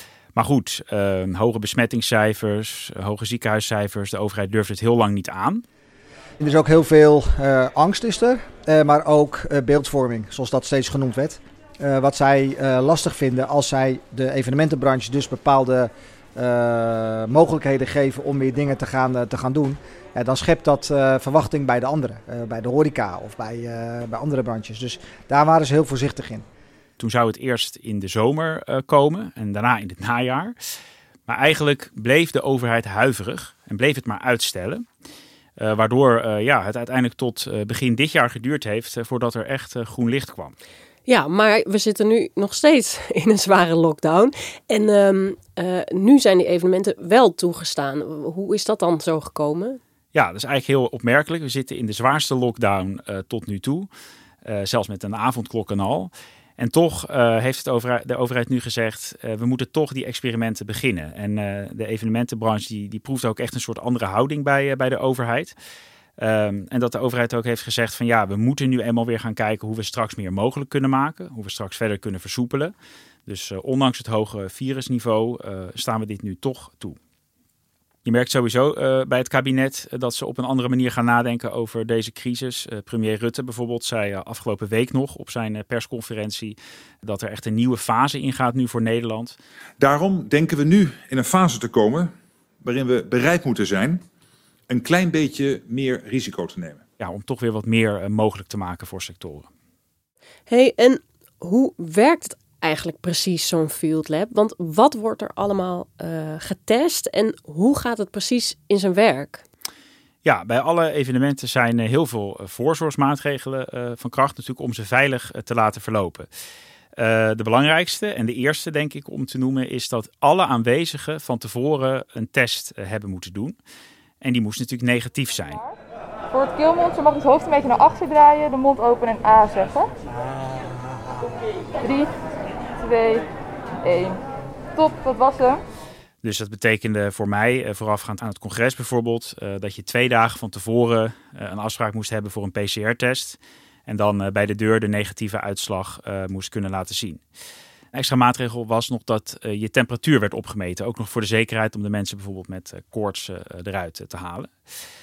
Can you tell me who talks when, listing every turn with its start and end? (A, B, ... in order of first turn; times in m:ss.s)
0:00.3-0:05.6 A
0:06.4-0:26.4 B
0:27.0-0:30.5 A
0:31.3-0:34.8 A
0:35.6-0:40.5 A
0:41.0-0:49.8 C
0:50.1-0:53.9 A
0:54.4-1:05.5 A
1:06.2-1:12.7 A
1:13.3-1:17.0 A
1:18.0-1:29.4 A
1:29.8-1:32.1 D
1:32.6-1:34.0 D
1:34.7-1:36.8 D
1:37.0-1:39.5 A
1:40.5-1:49.4 C
1:50.2-1:56.3 A
1:57.0-2:03.6 A
2:04.2-2:05.6 A
2:06.3-2:09.9 E
2:11.8-2:12.1 E
2:12.8-2:13.2 E
2:13.8-2:14.2 E
2:14.8-2:15.6 E
2:16.2-2:27.2 A
2:27.9-2:34.5 A